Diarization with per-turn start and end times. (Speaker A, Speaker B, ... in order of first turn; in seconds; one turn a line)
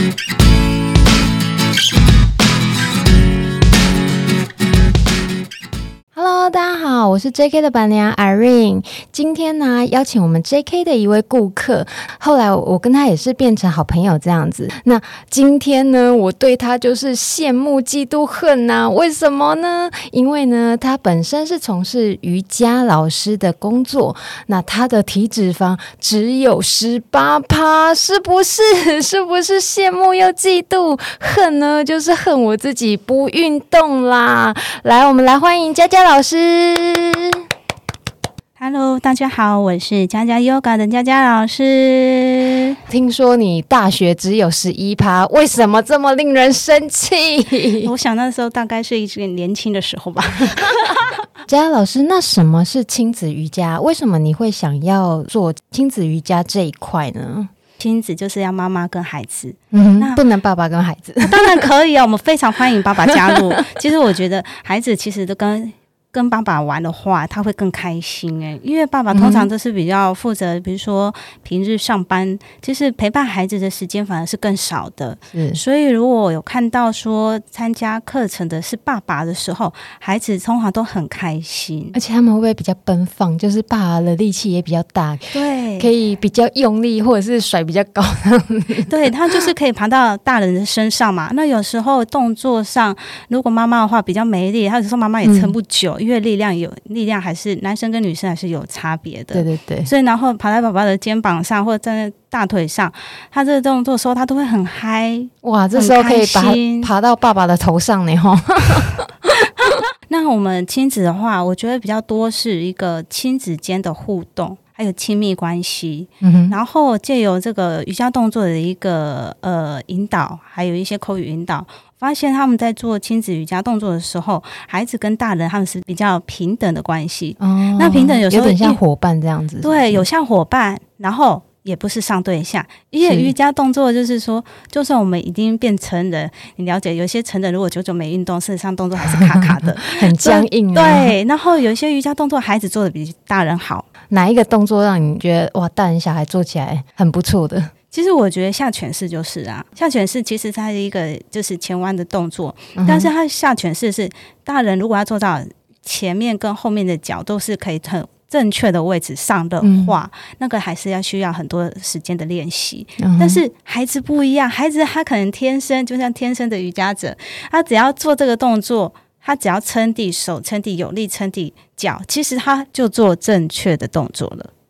Speaker A: 6.1-37.4
Speaker B: 38.6-42.8
Speaker A: 42.9-47.9
Speaker B: 47.8-51.2
Speaker A: 51.5-57.5
Speaker B: 57.8-60.2
Speaker A: 59.7-61.6
Speaker B: 61.2-81.9
Speaker A: 69.1-69.5
Speaker A: 75.3-75.6
Speaker A: 81.9-88.9
Speaker B: 85.3-85.9
Speaker B: 88.9-106.9
Speaker A: 95.2-95.5
Speaker A: 99.3-99.9
Speaker A: 105.4-109.8
Speaker B: 110.1-128.8
Speaker A: 116.2-116.6
Speaker A: 127.4-130.0
Speaker B: 129.6-143.9
Speaker A: 133.0-133.3
Speaker A: 139.1-141.1
Speaker A: 144.1-147.7
Speaker B: 147.9-174.5
Speaker A: 152.8-153.1
Speaker A: 159.6-159.9
Speaker A: 163.0-163.4